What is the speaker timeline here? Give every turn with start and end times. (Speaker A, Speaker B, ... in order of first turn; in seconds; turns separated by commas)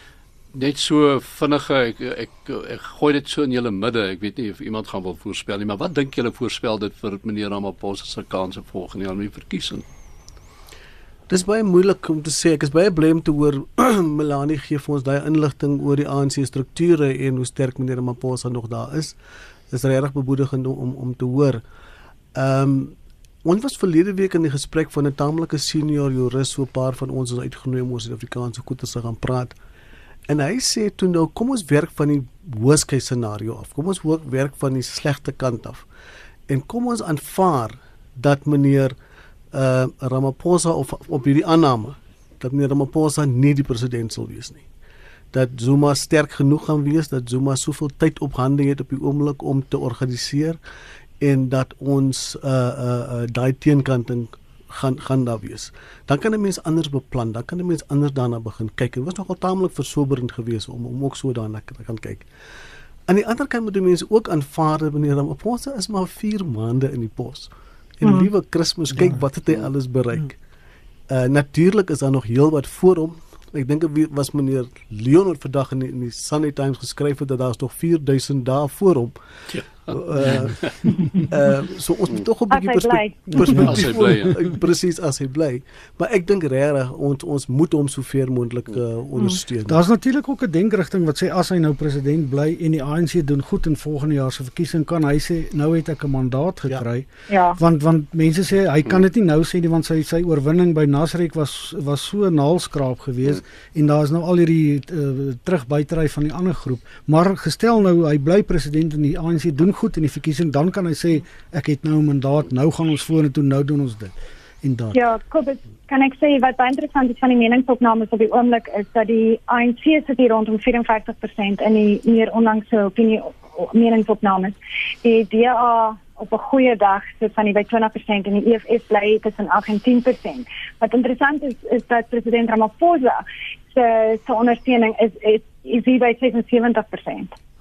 Speaker A: 0.5-9.8, Speaker B: 11.3-19.2, Speaker B: 19.7-21.6, Speaker B: 22.4-29.6, Speaker B: 30.3-35.9, Speaker B: 36.5-38.9, Speaker B: 39.5-44.6, Speaker B: 45.3-50.6, Speaker B: 51.2-62.3, Speaker B: 63.1-67.5, Speaker B: 68.0-70.4, Speaker C: 68.0-68.3, Speaker B: 71.1-79.1, Speaker A: 79.5-80.8, Speaker B: 79.9-89.8, Speaker C: 82.5-83.7, Speaker D: 83.4-83.8, Speaker A: 83.6-84.4, Speaker D: 89.7-115.0, Speaker C: 97.3-97.6, Speaker C: 114.9-137.3